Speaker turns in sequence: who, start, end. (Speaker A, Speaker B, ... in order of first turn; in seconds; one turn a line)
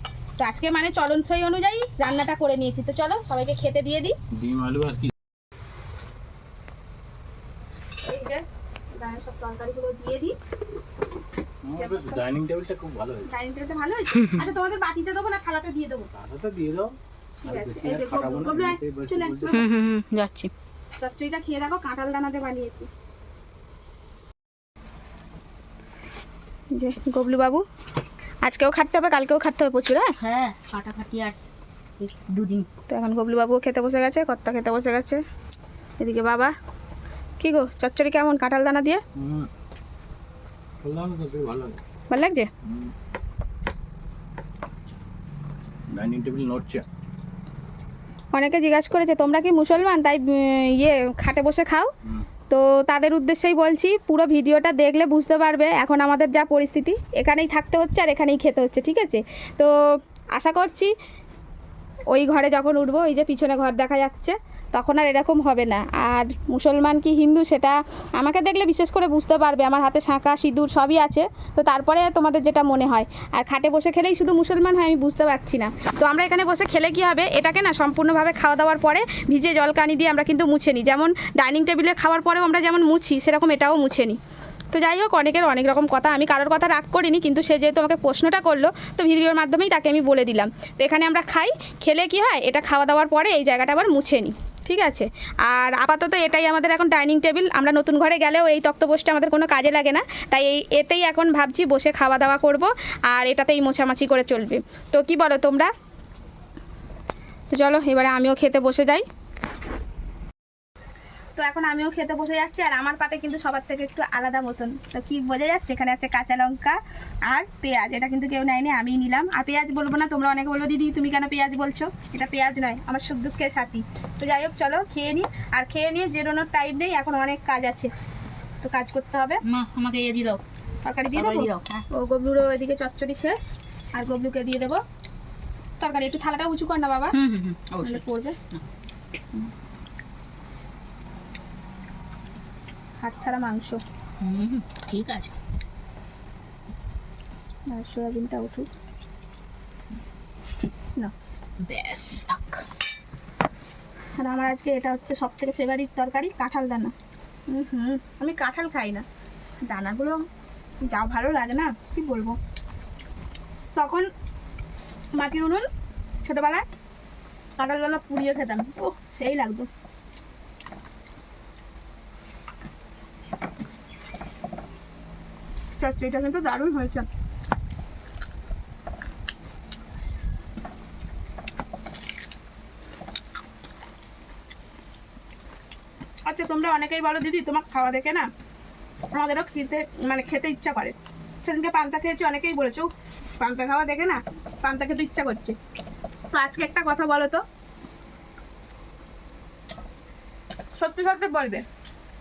Speaker A: 0.4-4.2
Speaker B: 4.3-5.1
Speaker A: 8.0-8.4
Speaker A: 8.9-10.3
Speaker B: 11.6-13.3
Speaker A: 11.7-12.2
Speaker A: 13.2-16.1
Speaker C: 14.1-14.4
Speaker B: 16.1-16.9
Speaker A: 17.4-19.6
Speaker B: 17.4-19.7
Speaker C: 19.5-20.5
Speaker A: 21.0-22.9
Speaker A: 26.7-27.6
Speaker A: 28.4-30.1
Speaker C: 30.2-31.4
Speaker C: 32.0-32.7
Speaker A: 32.9-35.2
Speaker A: 36.0-36.5
Speaker A: 37.4-39.0
Speaker B: 39.1-39.5
Speaker B: 40.8-41.8
Speaker A: 42.1-42.5
Speaker B: 45.9-46.8
Speaker A: 48.3-51.9
Speaker A: 52.5-60.9
Speaker A: 62.1-84.2
Speaker A: 84.7-105.7
Speaker A: 107.5-109.0
Speaker A: 111.3-127.9
Speaker A: 128.6-129.4
Speaker C: 129.4-130.4
Speaker A: 130.8-134.8
Speaker C: 131.1-131.8
Speaker A: 135.8-137.2
Speaker C: 137.1-138.0
Speaker A: 137.8-138.4
Speaker A: 143.0-143.8
Speaker C: 144.2-145.3
Speaker A: 147.7-148.7
Speaker A: 150.6-151.1
Speaker C: 151.6-152.6
Speaker A: 154.2-156.9
Speaker A: 157.5-159.0
Speaker A: 159.6-160.2
Speaker A: 160.8-162.4
Speaker A: 163.7-164.1
Speaker A: 165.2-165.7
Speaker A: 166.2-166.7
Speaker A: 167.6-169.7
Speaker A: 175.8-177.1
Speaker A: 186.2-188.3
Speaker A: 189.1-195.6
Speaker A: 196.3-197.4
Speaker A: 200.8-201.6